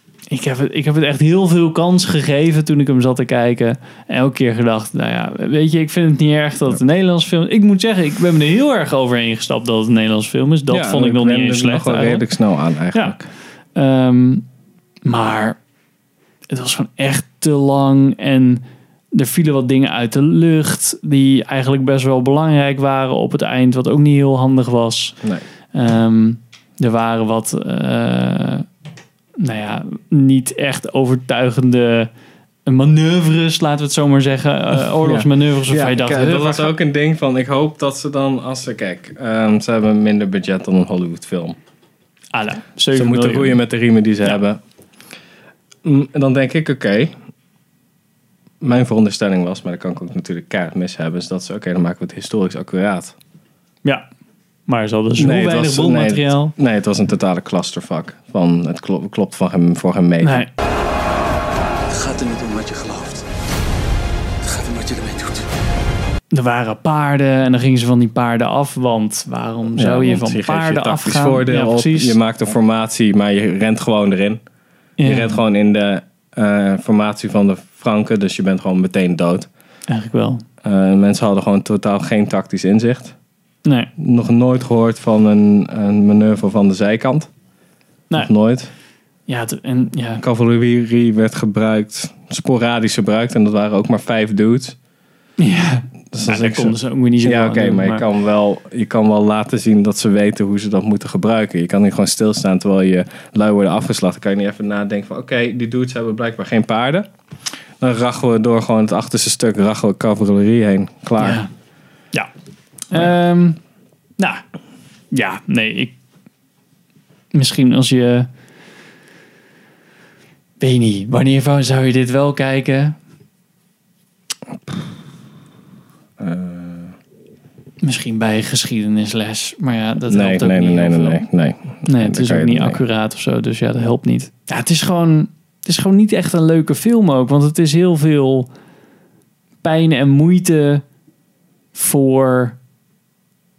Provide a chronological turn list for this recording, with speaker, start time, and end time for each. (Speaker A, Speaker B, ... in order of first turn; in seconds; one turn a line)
Speaker A: 0.3-12.2
Speaker B: 10.7-13.3
Speaker A: 13.7-14.4
Speaker A: 15.0-15.6
Speaker A: 16.5-25.2
Speaker A: 25.7-28.6
Speaker A: 29.4-32.1
Speaker A: 32.6-36.7
Speaker B: 35.0-41.6
Speaker A: 42.3-43.6
Speaker B: 42.9-44.6
Speaker B: 45.8-47.1
Speaker B: 48.6-53.1
Speaker A: 54.7-56.5
Speaker B: 55.2-60.4
Speaker A: 60.2-60.5
Speaker C: 61.9-63.2
Speaker C: 64.4-65.5
Speaker A: 66.3-72.2
Speaker B: 69.7-74.4
Speaker A: 75.0-75.4
Speaker B: 75.0-79.5
Speaker A: 79.9-80.4
Speaker B: 80.6-83.1
Speaker A: 83.6-83.9
Speaker B: 84.0-87.3
Speaker B: 88.1-88.7
Speaker A: 89.3-90.2
Speaker B: 90.2-94.8
Speaker A: 95.4-98.0
Speaker B: 96.1-107.1
Speaker B: 107.8-111.4
Speaker A: 111.2-111.5
Speaker A: 112.9-113.6
Speaker A: 114.2-114.4
Speaker A: 115.1-116.0
Speaker A: 117.3-118.3
Speaker A: 120.6-123.0
Speaker B: 126.2-127.0
Speaker A: 127.8-131.3
Speaker B: 130.1-132.8
Speaker A: 131.8-138.5
Speaker A: 139.6-140.8
Speaker A: 141.7-142.6